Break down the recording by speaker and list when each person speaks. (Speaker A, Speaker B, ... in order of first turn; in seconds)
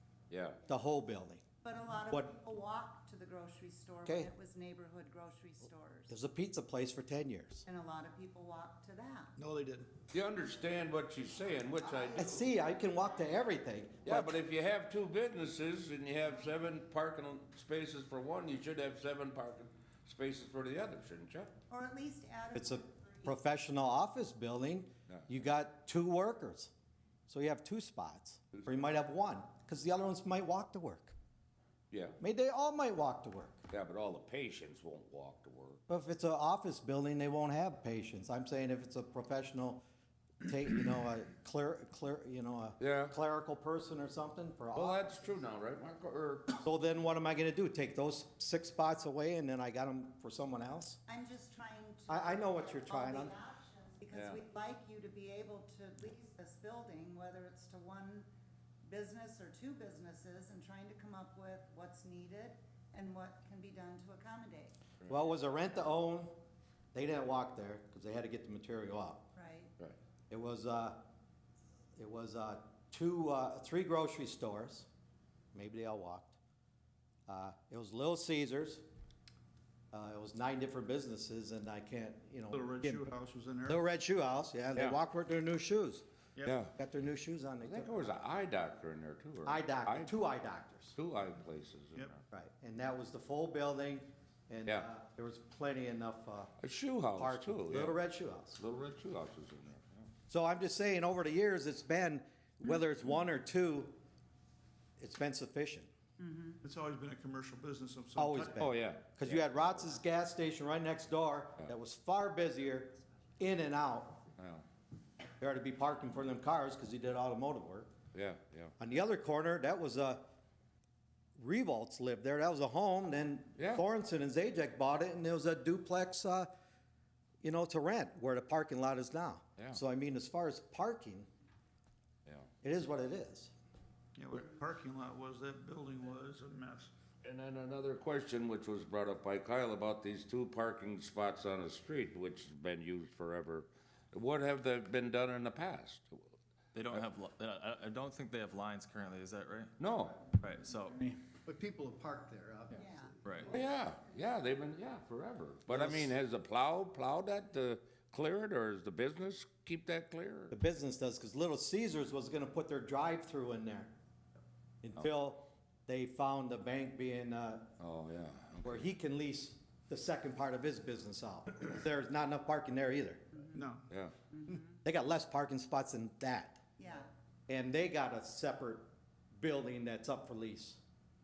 Speaker A: 0.3-0.6, 10.1-12.4, 14.0-21.5, 31.9-32.2, 33.7-35.8, 42.8-43.2, 44.7-46.7, 54.1-54.4, 86.4-86.7, 87.6-90.1, 91.0-92.2, 96.6-98.0, 98.5-100.1, 108.6-109.5, 114.4-114.7, 118.1-118.7, 123.6-123.8, 137.2-146.2, 149.8-150.2, 153.5-160.6, 167.8-168.8, 173.9-174.1
Speaker B: 0.7-1.4, 6.1-7.7, 12.1-14.4, 22.5-26.7, 27.3-31.1, 32.2-33.6, 35.9-39.8, 40.4-45.0, 46.6-51.0, 52.1-53.4, 65.1-66.4, 66.9-69.3, 70.3-71.0, 72.0-74.9, 75.5-76.4, 77.3-78.8, 79.9-83.1, 83.7-86.0, 86.8-88.1, 89.4-91.0, 92.3-96.5, 97.2-98.6, 100.3-104.0, 105.0-105.9, 108.2-114.2, 115.4-117.9, 118.8-120.3, 121.4-126.5, 127.4-131.3, 132.6-133.5, 155.7-156.1, 160.5-163.9, 164.8-167.8, 168.6-173.5, 174.8-176.6, 177.5-180.8
Speaker C: 1.6-6.1, 7.7-9.3, 21.7-23.3, 51.1-58.3, 58.8-64.8, 69.4-69.7, 106.2-106.6, 152.8-153.1, 176.8-177.1
Speaker D: 9.4-9.9, 82.5-83.8, 86.4-86.6, 106.6-108.6, 134.2-136.9, 173.5-173.9
Speaker E: 146.7-149.7, 150.4-151.0, 153.2-153.5
Speaker F: 151.4-153.7